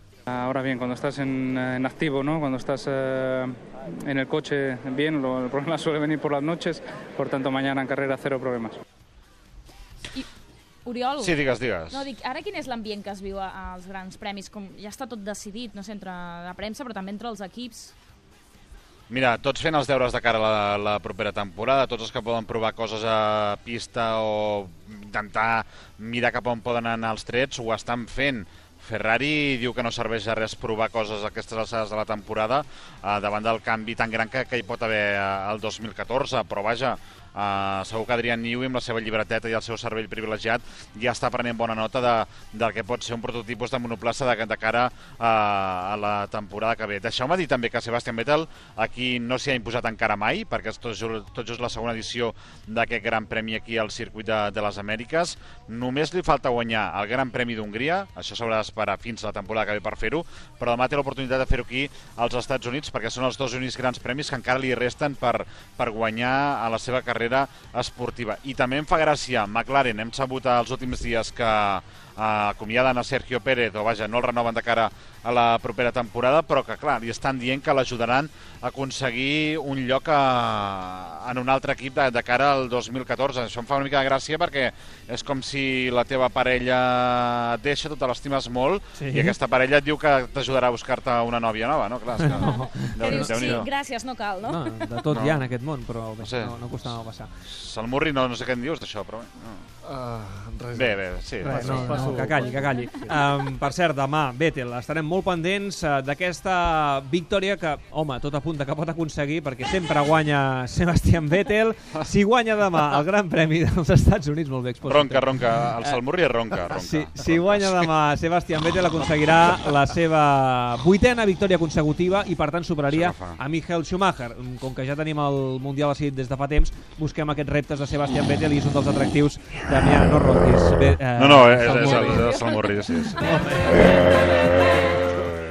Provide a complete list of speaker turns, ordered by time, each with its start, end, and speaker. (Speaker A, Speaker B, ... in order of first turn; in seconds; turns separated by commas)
Speaker A: 0.3-8.8, Speaker B: 10.8-17.9, Speaker C: 11.2-12.1, Speaker C: 19.1-93.7, Speaker D: 89.0-89.3, Speaker D: 92.2-93.7, Speaker B: 92.3-95.0, Speaker D: 94.4-97.3, Speaker C: 95.1-95.4, Speaker C: 96.2-96.5, Speaker C: 97.4-99.7, Speaker E: 99.8-103.1, Speaker C: 100.7-102.0, Speaker D: 101.4-116.0, Speaker B: 102.5-102.9, Speaker C: 114.8-117.9, Speaker D: 116.6-132.4, Speaker C: 122.9-123.4, Speaker C: 131.2-133.3, Speaker D: 133.1-134.0, Speaker C: 135.1-135.3